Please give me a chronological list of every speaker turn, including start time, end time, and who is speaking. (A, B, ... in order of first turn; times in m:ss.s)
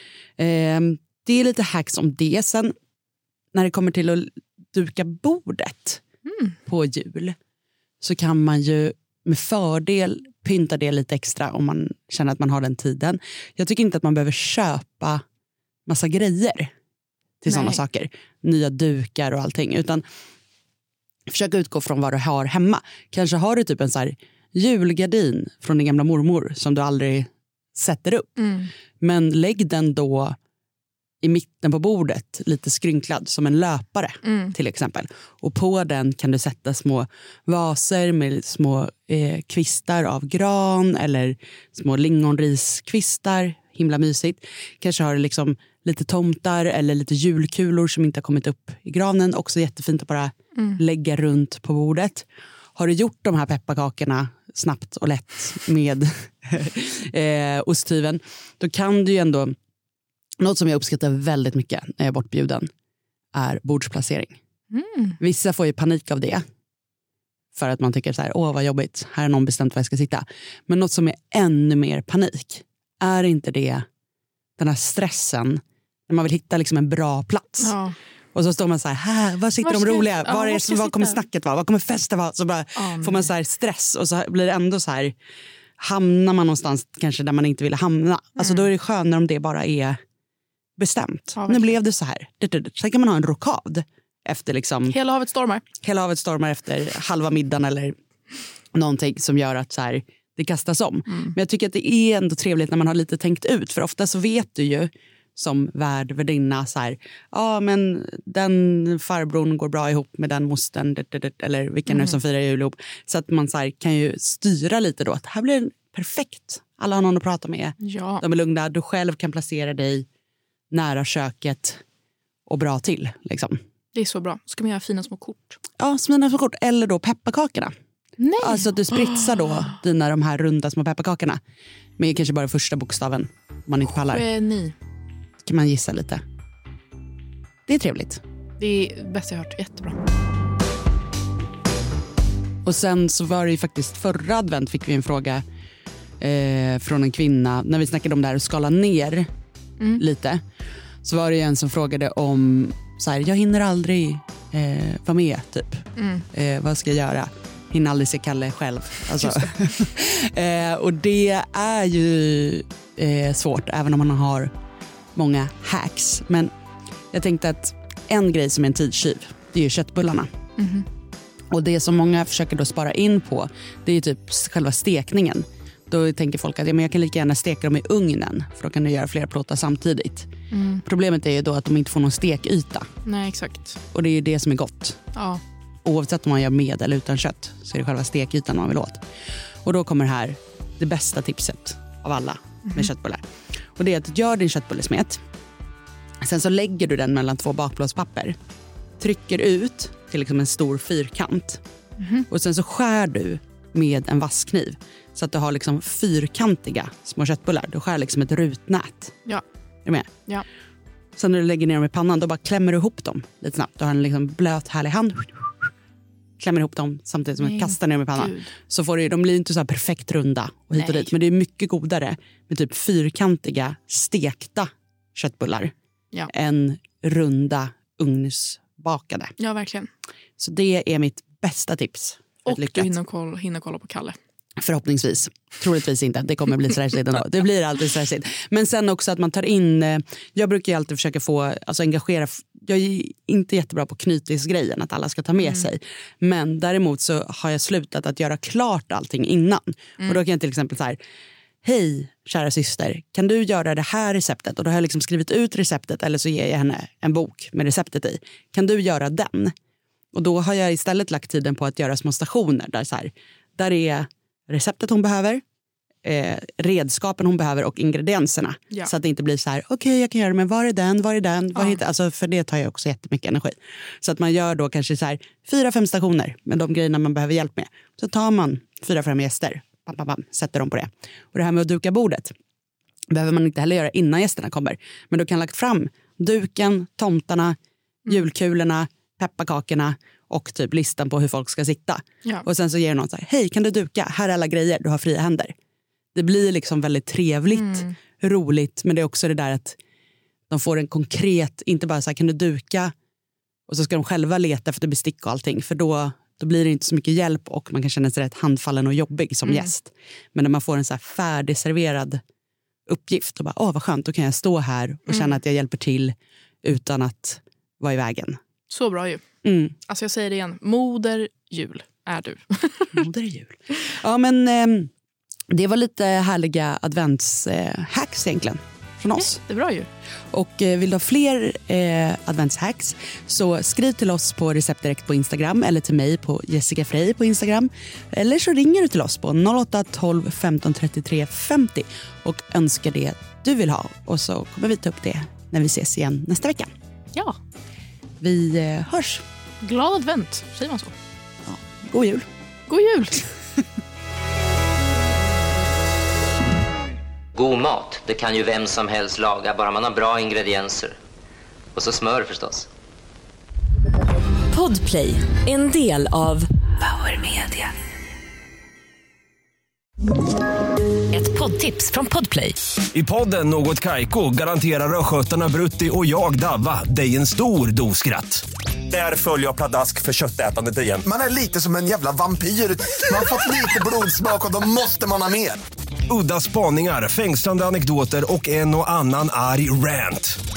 0:00.4-0:02.7 A
0:03.5-0:06.0 A
0:06.2-0:06.6 B
0:06.6-0:07.4 A
0:08.0-0:15.2 A
0:15.9-0:16.7 A
0:17.4-0:20.0 A
0:17.5-0:17.8 B
0:21.3-0:28.4 A
0:28.4-0:28.7 B
0:29.0-0:30.4 A
0:31.2-0:59.6 A
0:34.2-0:34.5 B
0:50.5-0:50.8 B
1:00.4-1:02.7 A
1:03.3-1:04.4 A
1:04.7-1:05.2 B
1:05.2-1:06.4 A
1:07.5-1:13.8 A
1:14.6-1:17.8 A
1:17.6-1:18.0 B
1:18.3-1:25.1 A
1:19.6-1:21.2 B
1:22.8-1:23.3 B
1:25.8-1:30.0 A
1:28.4-1:28.6 B
1:30.8-1:35.0 A
1:31.4-1:31.8 B
1:34.8-1:35.6 B
1:35.8-1:38.0 A
1:38.7-2:00.0 A
1:41.1-1:41.4 B
1:51.9-1:52.2 B
1:57.8-1:58.2 B
2:00.7-2:01.8 A
2:02.5-2:03.6 A
2:03.9-2:05.6 B
2:05.8-2:07.7 A
2:08.2-2:09.7 B
2:08.4-2:11.4 A
2:12.0-2:14.3 A
2:13.9-2:14.7 B
2:15.4-2:16.2 A
2:17.7-2:18.2 A
2:18.6-2:20.0 B
2:22.6-2:25.4 A
2:26.2-2:29.3 A
2:29.8-2:30.0 B
2:30.0-2:30.4 A
2:31.0-2:44.5 A
2:36.0-2:36.2 B
2:39.2-2:39.5 B
2:45.1-2:46.5 A
2:47.1-2:50.3 A
2:50.6-2:50.8 B
2:51.5-3:00.3 A
3:00.5-3:00.8 B
3:00.8-3:02.9 A
3:03.0-3:03.8 B
3:03.9-3:05.0 A
3:05.1-3:05.4 B
3:05.8-3:09.0 A
3:09.6-3:13.2 A
3:13.8-3:15.2 A
3:16.2-3:18.4 A
3:19.0-3:21.6 A
3:22.0-3:22.3 B
3:22.3-3:29.1 A
3:29.8-3:30.1 A
3:31.2-3:35.7 A
3:36.4-3:45.7 A
3:37.4-3:38.5 B
3:40.7-3:41.1 B
3:46.3-3:49.3 A
3:49.4-3:49.9 B
3:50.4-3:52.9 A
3:52.4-3:54.2 B
3:54.6-4:11.0 A
4:11.6-4:19.5 A
4:20.1-4:25.4 A
4:26.0-4:42.3 A
4:43.1-4:55.5 A
4:56.1-4:59.8 A
4:57.5-4:57.9 B
5:00.5-5:02.9 A
5:03.7-5:12.2 A
5:09.4-5:09.7 B
5:12.9-5:18.4 A
5:15.1-5:15.4 B
5:18.7-5:19.2 B
5:19.4-5:19.7 A
5:19.8-5:23.0 B
5:22.9-5:24.9 A
5:25.5-5:29.4 A
5:29.2-5:29.9 B
5:30.3-5:46.7 A
5:48.2-5:49.2 A
5:49.6-5:50.9 B
5:51.4-5:52.3 A
5:52.7-5:53.2 B
5:57.3-6:01.0 C
6:01.7-6:02.7 C
6:04.5-6:07.7 D
6:11.1-6:12.6 D
6:12.9-6:21.1 E
6:21.1-6:25.6 F
6:26.1-6:30.4 E